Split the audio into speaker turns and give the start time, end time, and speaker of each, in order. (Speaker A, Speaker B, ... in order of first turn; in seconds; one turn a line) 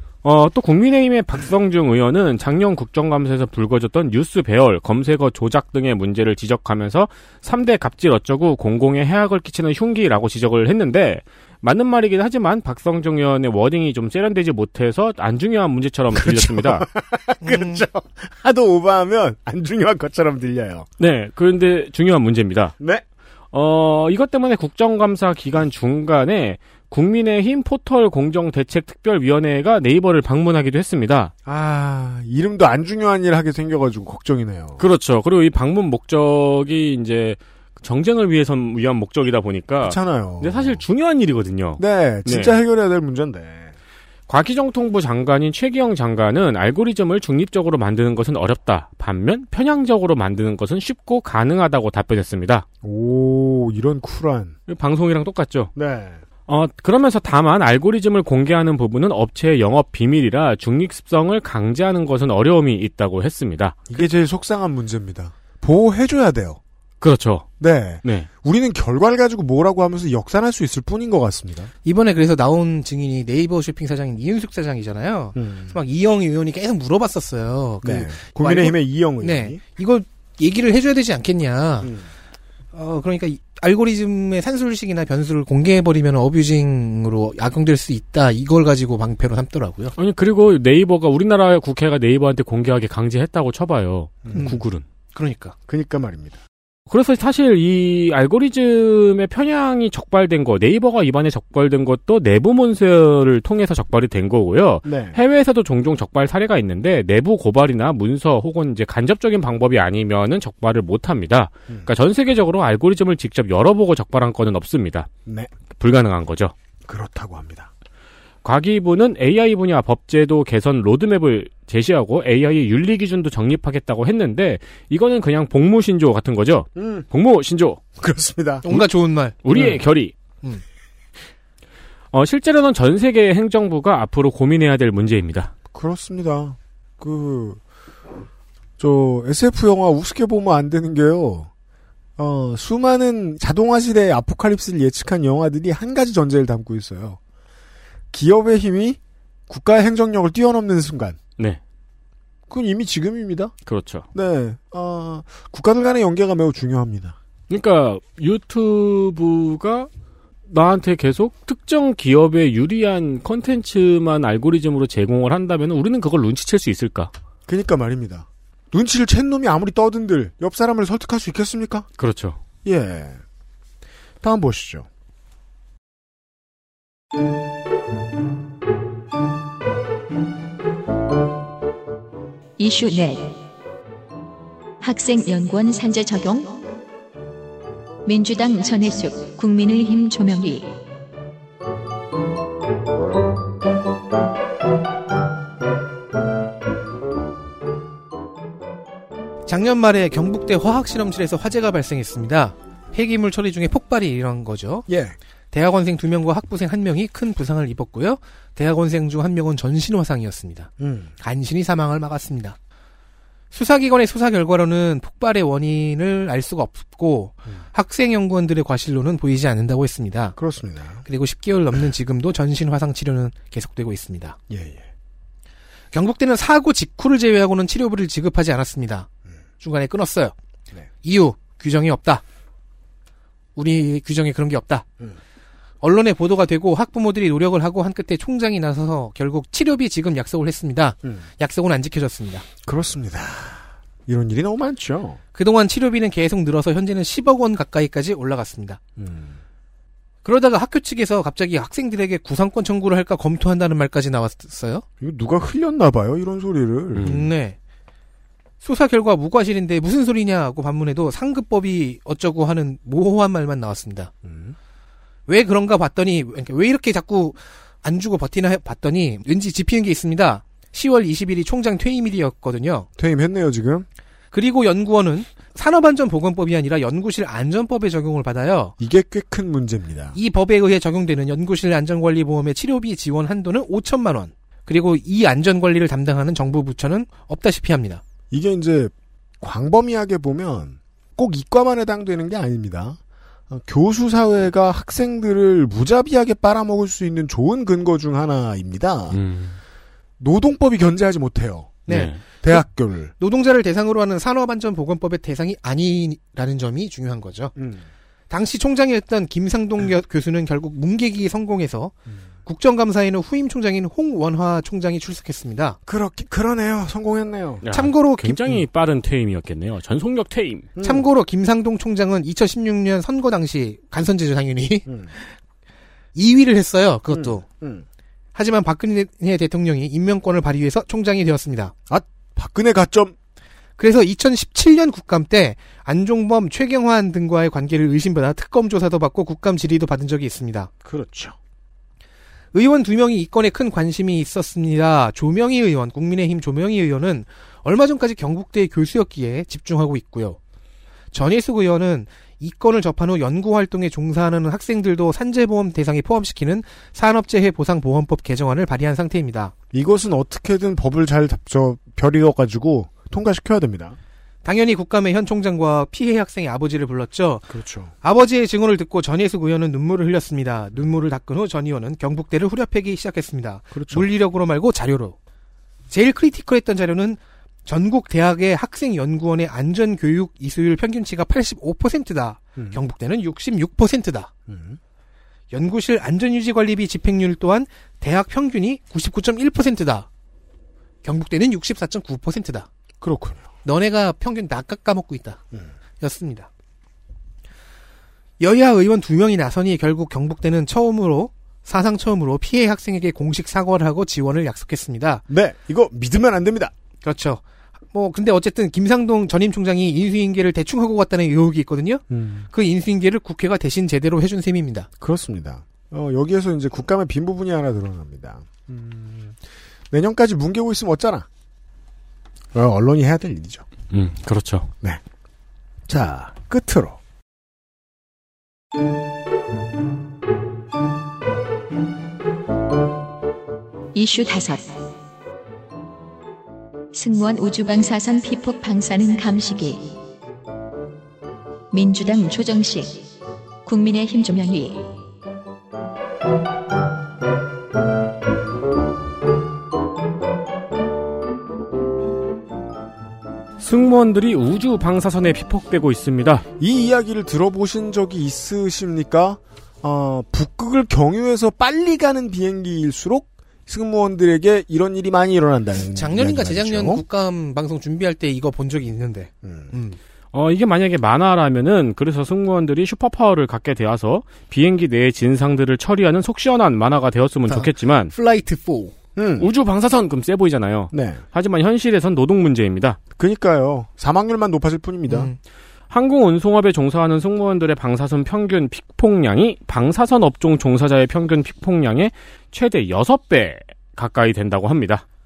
Speaker A: 0.2-16.9
Speaker B: 16.1-20.9
Speaker C: 17.4-17.8
Speaker A: 21.0-22.8
Speaker B: 22.8-23.0
Speaker A: 23.5-31.3
Speaker B: 31.5-34.8
Speaker A: 34.8-42.6
Speaker B: 39.8-40.8
Speaker B: 41.8-43.7
Speaker A: 44.3-52.7
Speaker B: 52.8-54.6
Speaker A: 54.7-55.7
Speaker B: 55.8-56.2
Speaker A: 56.5-63.9
Speaker B: 63.9-66.6
Speaker A: 67.0-67.5
Speaker B: 67.6-71.7
Speaker C: 71.8-81.9
Speaker B: 75.3-75.8
Speaker B: 77.8-79.6
Speaker B: 81.8-82.1
Speaker C: 82.7-89.9
Speaker A: 90.0-94.8
Speaker C: 94.3-94.6
Speaker C: 95.2-95.5
Speaker B: 95.7-96.4
Speaker A: 96.9-115.1
Speaker B: 104.8-105.2
Speaker B: 115.3-115.5
Speaker A: 115.8-116.5
Speaker B: 116.9-117.7
Speaker A: 118.4-127.8
Speaker B: 126.8-127.1
Speaker B: 128.0-128.8
Speaker C: 128.6-129.4
Speaker A: 129.4-130.1
Speaker B: 129.5-129.8
Speaker A: 132.1-135.5
Speaker B: 135.7-137.6
Speaker B: 138.8-141.5
Speaker B: 142.2-147.2
Speaker B: 148.1-151.2
Speaker B: 152.5-153.5
Speaker A: 153.7-154.1
Speaker B: 154.1-157.2
Speaker A: 157.5-159.9
Speaker A: 160.5-167.1
Speaker B: 167.5-171.9
Speaker A: 172.0-172.4
Speaker B: 172.6-173.2
Speaker B: 174.2-174.9
Speaker D: 182.6-183.4
Speaker D: 184.8-186.6
Speaker D: 188.1-190.7
Speaker C: 199.5-204.9
Speaker B: 204.9-205.2
Speaker C: 205.5-212.6
Speaker B: 210.8-211.1
Speaker C: 213.5-220.3
Speaker B: 220.4-221.1
Speaker C: 221.1-224.4
Speaker B: 224.5-224.9
Speaker C: 225.9-229.1
Speaker C: 229.6-230.3
Speaker C: 231.0-232.2
Speaker C: 233.6-234.8
Speaker C: 235.8-242.5
Speaker B: 242.6-245.2
Speaker C: 245.3-248.8
Speaker B: 249.0-249.4
Speaker C: 250.2-254.8
Speaker B: 255.0-257.2
Speaker A: 256.9-257.3
Speaker C: 257.0-257.6
Speaker C: 258.6-264.1
Speaker B: 264.2-264.6
Speaker C: 265.3-272.9
Speaker B: 273.0-273.9
Speaker C: 274.3-278.8
Speaker B: 278.8-280.2
Speaker C: 280.1-288.0
Speaker B: 288.3-293.0
Speaker B: 293.5-299.2
Speaker A: 299.1-299.6
Speaker B: 300.2-301.9
Speaker C: 301.9-302.6
Speaker A: 301.9-302.2
Speaker B: 302.4-303.1
Speaker C: 303.2-307.5
Speaker B: 307.6-307.9
Speaker C: 308.3-311.9
Speaker C: 312.4-315.8
Speaker B: 315.9-317.6
Speaker A: 317.6-320.7
Speaker C: 317.7-318.5
Speaker B: 320.8-321.1
Speaker C: 320.8-325.3
Speaker B: 324.9-325.1
Speaker C: 326.1-327.4
Speaker B: 327.1-327.9
Speaker C: 328.4-331.7
Speaker B: 331.9-333.1
Speaker C: 333.8-340.7
Speaker B: 340.9-341.4
Speaker C: 342.5-350.4
Speaker C: 351.1-359.5
Speaker B: 359.7-364.0
Speaker C: 364.4-367.5
Speaker B: 367.5-367.9
Speaker C: 368.0-375.2
Speaker B: 373.7-374.1
Speaker C: 375.9-384.3
Speaker B: 384.5-384.8
Speaker C: 385.5-390.1
Speaker C: 391.0-392.7
Speaker B: 393.0-393.5
Speaker C: 393.6-395.4
Speaker C: 396.0-396.5
Speaker C: 398.4-405.2
Speaker B: 405.3-406.7
Speaker C: 407.0-407.4
Speaker C: 407.9-414.9
Speaker B: 412.1-412.5
Speaker B: 415.0-419.4
Speaker B: 419.9-421.3
Speaker B: 422.5-423.6
Speaker A: 423.9-424.7
Speaker B: 425.9-427.0
Speaker D: 433.9-434.7
Speaker D: 436.9-439.9
Speaker D: 441.7-443.0
Speaker D: 443.6-444.9
Speaker A: 453.6-456.4
Speaker B: 456.6-467.0
Speaker C: 465.9-470.0
Speaker B: 469.4-469.7
Speaker A: 470.3-478.1
Speaker C: 477.5-478.9
Speaker B: 479.2-479.5
Speaker A: 479.4-483.0
Speaker B: 480.9-481.2
Speaker B: 483.2-485.3
Speaker C: 485.1-485.4
Speaker A: 485.9-495.0